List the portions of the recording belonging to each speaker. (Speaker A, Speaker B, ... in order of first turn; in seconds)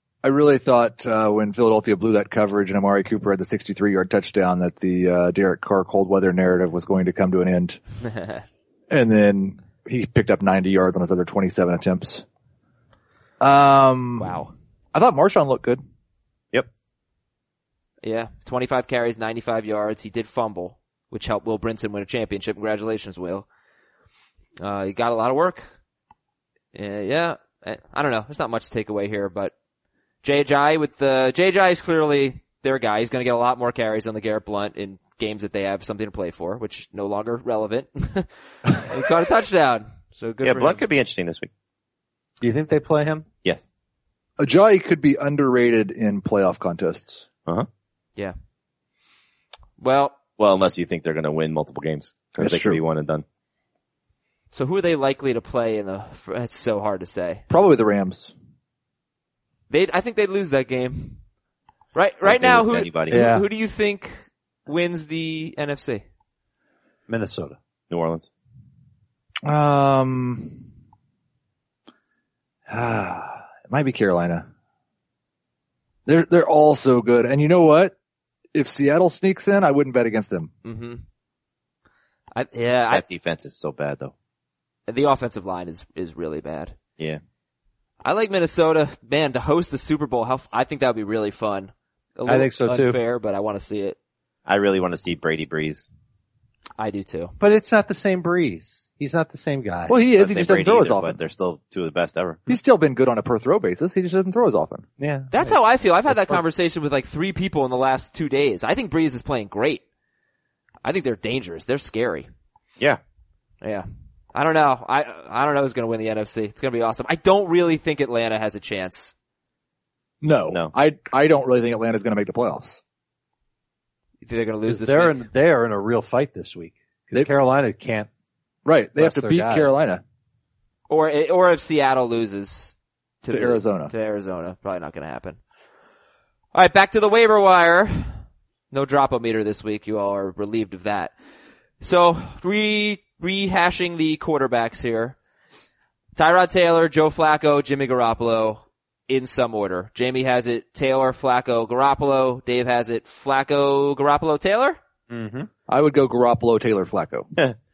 Speaker A: 0.2-7.8, 8.9-12.2, 13.4-14.3, 14.9-15.8, 44.4-47.2, 52.4-52.8, 57.5-58.3, 69.4-70.6, 72.7-74.5, 76.0-77.9, 78.5-80.5, 99.9-101.2, 102.5-104.8, 120.2-122.8, 128.7-130.0, 133.3-133.9, 155.7-157.3
Speaker B: 14.2-14.5, 18.0-23.4, 24.6-25.7, 26.7-29.5, 30.2-40.8, 49.8-50.2, 54.5-57.4, 59.7-61.2, 61.9-66.0, 80.6-81.0, 82.3-83.0, 84.9-86.7, 88.0-94.0, 96.8-97.3, 105.3-109.8, 110.8-112.3, 113.6-119.1, 124.2-125.2, 130.9-135.4, 136.5-141.1, 141.8-145.2, 146.2-154.8
Speaker C: 40.4-41.5, 50.4-53.2, 62.2-63.2, 67.9-68.3, 82.9-84.1, 94.5-95.9, 100.2-102.4
Speaker D: 42.4-43.2, 63.1-63.5, 67.1-67.6, 92.3-93.0, 97.4-100.0, 105.0-106.4, 124.7-128.1, 129.0-129.8, 155.1-155.5